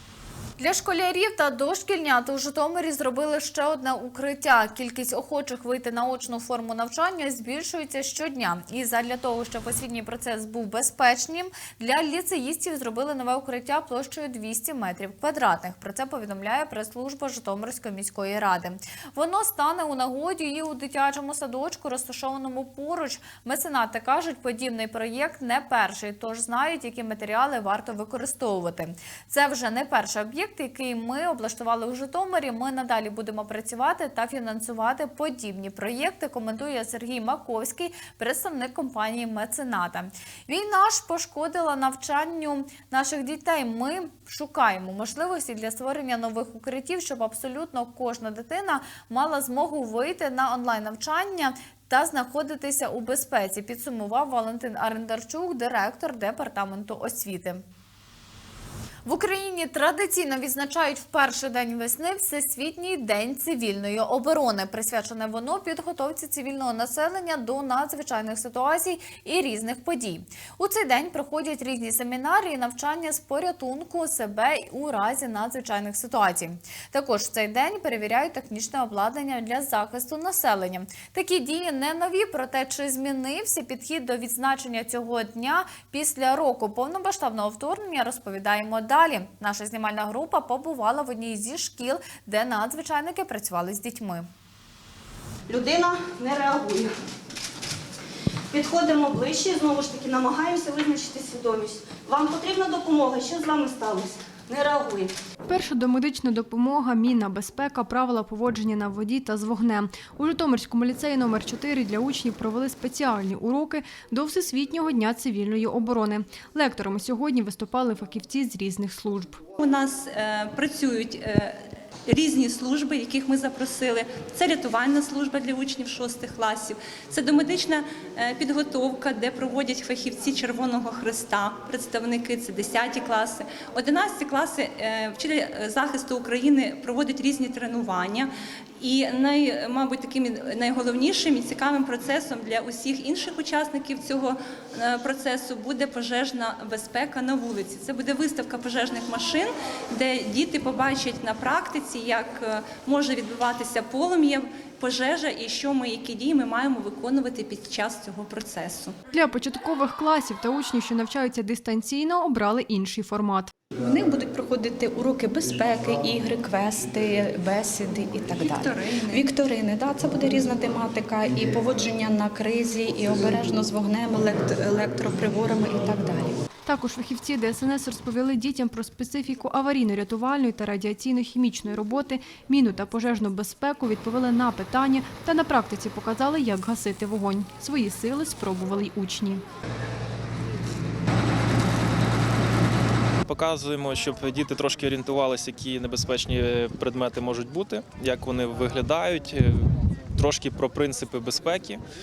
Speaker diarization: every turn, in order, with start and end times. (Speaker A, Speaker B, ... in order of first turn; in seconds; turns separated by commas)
Speaker A: 0.6-57.6, Speaker A: 59.0-94.3, Speaker B: 95.5-96.9, Speaker B: 98.5-105.1, Speaker C: 105.5-119.4, Speaker D: 119.6-158.9, Speaker C: 159.1-163.5, Speaker E: 163.8-176.3, Speaker D: 168.3-169.2, Speaker C: 176.7-189.4, Speaker F: 193.2-201.8